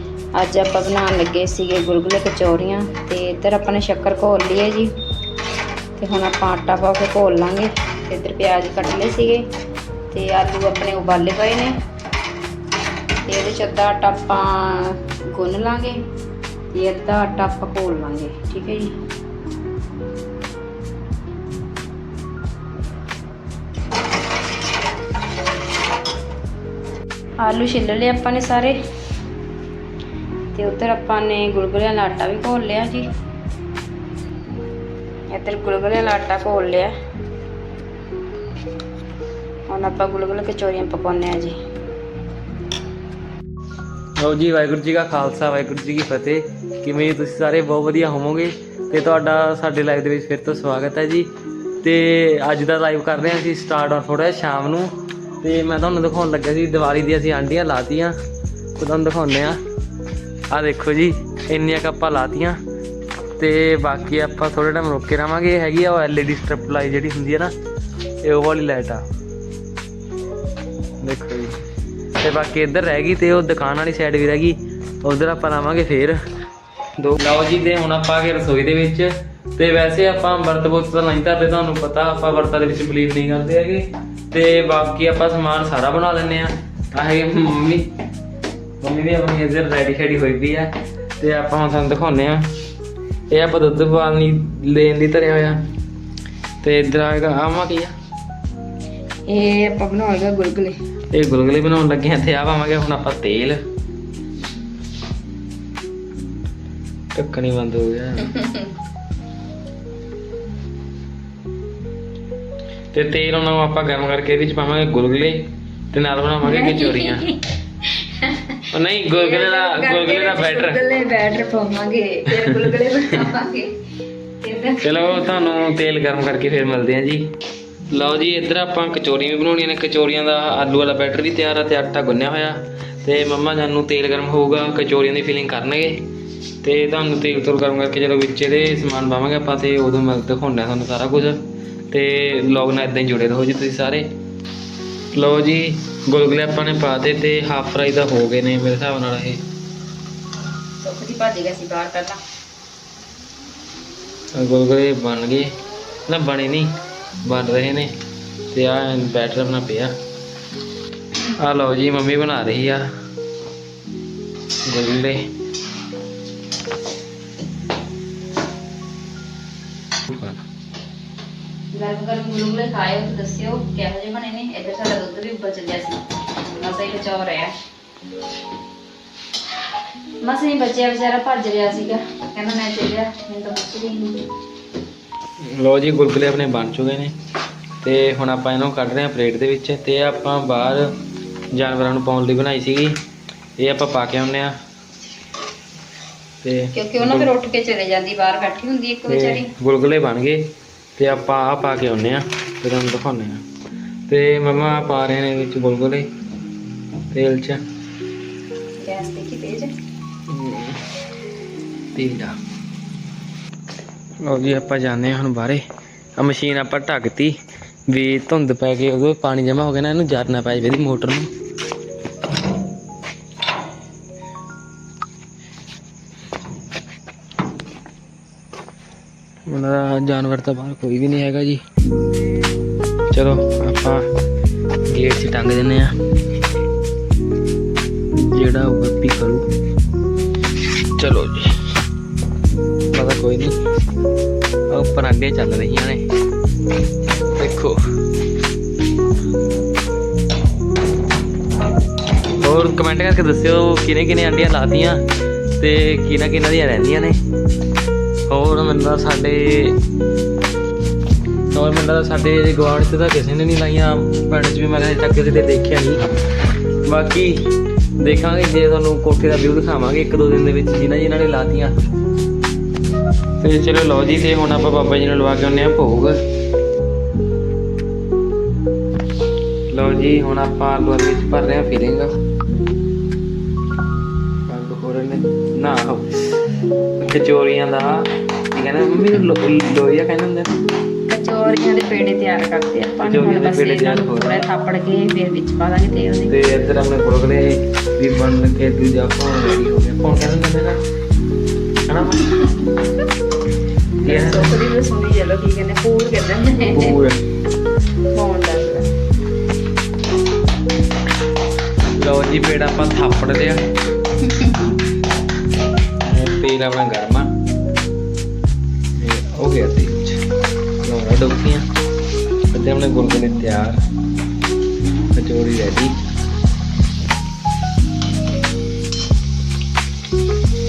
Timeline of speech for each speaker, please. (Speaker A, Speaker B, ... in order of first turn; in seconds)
Speaker A: 0.3-4.9, 6.0-9.4, 10.1-11.8, 13.3-16.0, 16.7-18.9, 27.4-28.8, 30.6-33.1, 35.3-36.9, 39.7-41.6, 99.3-100.8, 116.4-117.4, 118.0-118.6, 119.1-123.8, 124.4-125.4, 150.8-152.2, 171.7-177.5, 180.2-184.2, 196.7-199.5, 208.8-209.7, 291.1-296.3, 304.0-307.0, 308.1-308.9, 314.3-314.6
Speaker B: 44.2-51.3, 51.8-58.1, 58.8-59.6, 60.5-62.6, 63.4-67.5, 68.2-69.0, 71.0-71.6, 72.2-76.2, 77.0-87.9, 88.8-92.5, 93.3-95.6, 96.6-97.9, 101.1-103.6, 107.1-108.4, 112.9-117.2, 118.7-120.8, 122.4-122.8, 124.8-127.3, 127.9-136.1, 136.6-144.1, 145.1-149.4, 154.3-155.5, 156.1-156.7, 157.2-157.9, 158.5-159.9, 161.4-162.9, 164.7-165.2, 170.1-170.4, 185.4-187.1, 187.8-190.9, 191.5-193.0, 193.6-194.5, 196.4-197.3, 199.1-203.4, 204.1-206.1, 207.1-207.6, 210.3-210.8, 211.9-212.4, 214.2-215.6, 216.2-217.3, 217.9-221.3, 229.5-231.6, 233.1-234.1, 234.9-235.9, 238.2-239.4, 241.0-241.6, 242.9-243.6, 244.7-246.1, 247.3-247.8, 252.4-255.0, 255.6-257.2, 258.3-259.8, 261.5-266.0, 266.9-267.5, 268.0-271.7, 273.4-276.2, 279.7-282.1, 284.5-286.4, 287.0-290.6, 293.0-294.4, 296.3-300.8, 301.9-302.4, 304.0-304.5, 306.6-307.2, 312.0-313.6, 316.0-317.3, 319.0-320.2, 320.8-321.7, 322.5-323.8, 325.1-326.0